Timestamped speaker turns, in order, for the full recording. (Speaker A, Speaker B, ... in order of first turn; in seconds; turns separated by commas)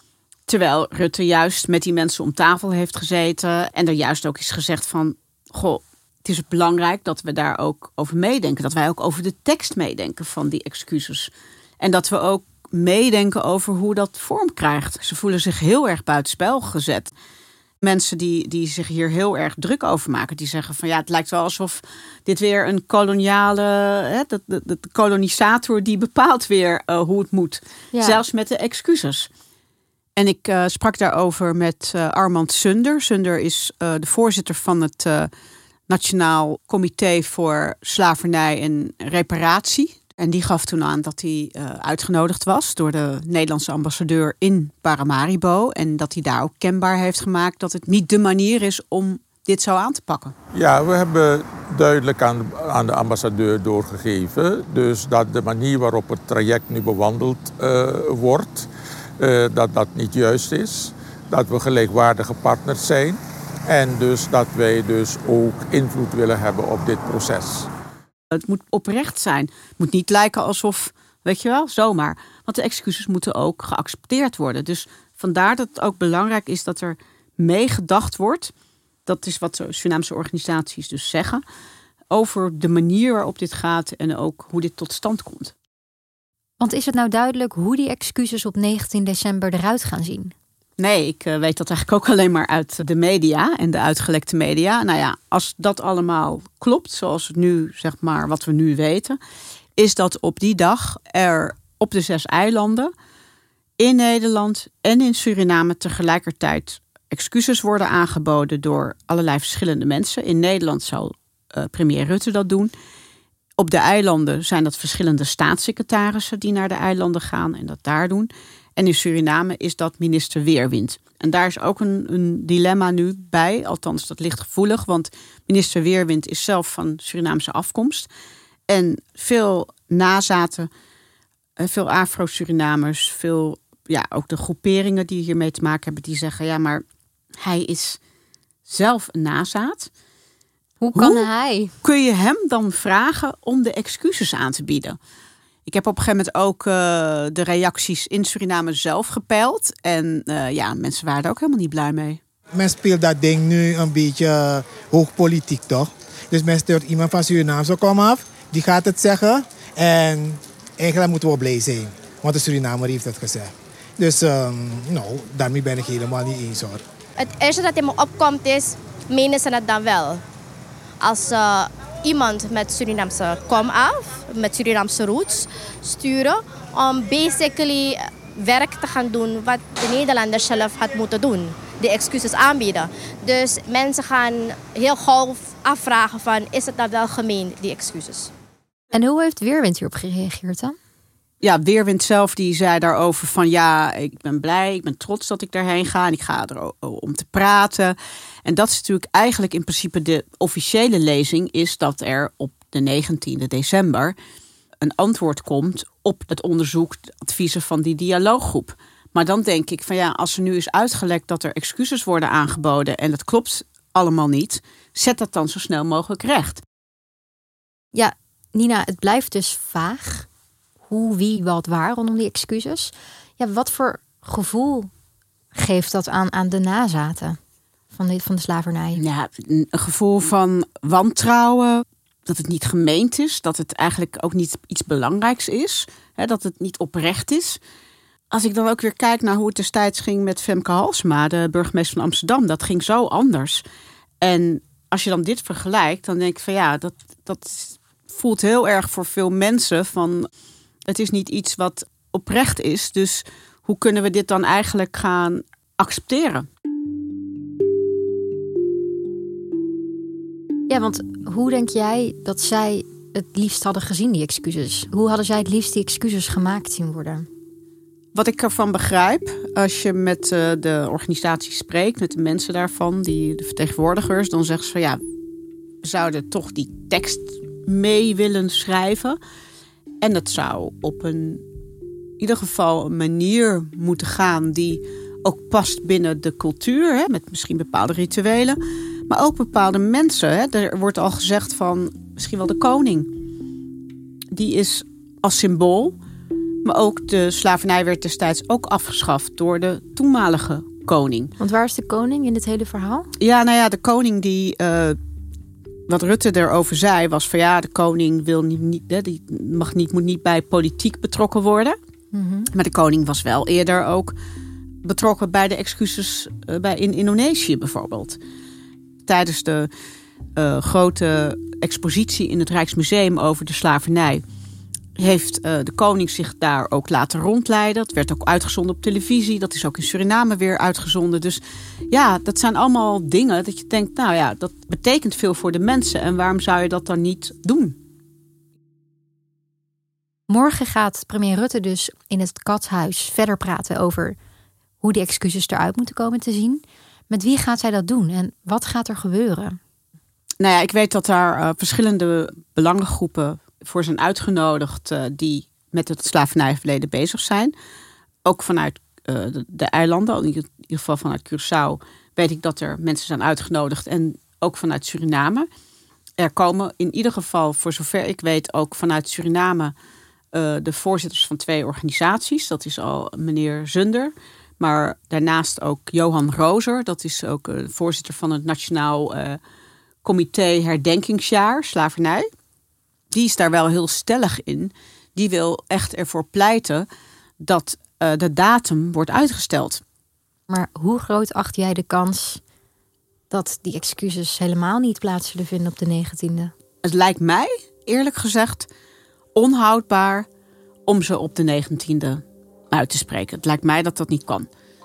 Speaker A: 0.5-17.1, Speaker A: 17.8-29.3, Speaker B: 27.9-28.2, Speaker A: 30.2-35.3, Speaker A: 35.9-50.3, Speaker C: 50.5-58.7, Speaker C: 59.2-67.7, Speaker A: 68.4-78.5, Speaker A: 79.1-81.4, Speaker A: 82.1-85.5, Speaker B: 86.6-90.3, Speaker A: 90.8-99.2, Speaker A: 99.8-102.9, Speaker A: 103.8-112.7, Speaker A: 113.6-128.1, Speaker A: 128.7-130.7, Speaker A: 131.6-136.8, Speaker A: 137.4-138.0, Speaker A: 138.7-139.9, Speaker B: 140.8-141.7, Speaker A: 140.9-141.2, Speaker A: 141.8-145.0, Speaker A: 145.7-152.2, Speaker D: 152.6-166.8, Speaker E: 167.2-170.2, Speaker E: 171.0-188.3, Speaker B: 188.9-190.8, Speaker A: 191.4-204.2, Speaker A: 204.8-216.6, Speaker B: 217.9-220.3, Speaker B: 220.9-224.9, Speaker B: 225.5-227.4, Speaker B: 227.9-229.0, Speaker A: 228.9-237.6, Speaker A: 238.3-243.6, Speaker A: 244.2-250.3, Speaker A: 250.9-256.5, Speaker B: 260.7-267.3, Speaker A: 268.1-275.0, Speaker A: 275.8-279.2, Speaker A: 280.0-281.4, Speaker A: 282.2-293.1, Speaker A: 294.3-295.9, Speaker A: 296.6-301.3, Speaker B: 301.4-303.1, Speaker A: 303.2-305.0, Speaker A: 305.9-311.8, Speaker B: 312.1-312.5, Speaker A: 312.5-314.1, Speaker A: 314.8-318.2, Speaker A: 319.1-319.7, Speaker A: 320.4-324.2, Speaker A: 325.0-337.8, Speaker B: 340.3-344.2, Speaker B: 344.8-349.6, Speaker A: 350.4-357.5, Speaker A: 358.2-365.5, Speaker A: 366.2-369.7, Speaker A: 370.3-379.4, Speaker A: 380.0-382.3, Speaker A: 383.1-386.9, Speaker A: 387.4-389.8, Speaker B: 390.5-392.4, Speaker B: 393.3-396.5, Speaker A: 396.8-398.7, Speaker A: 399.4-400.3, Speaker A: 400.9-404.5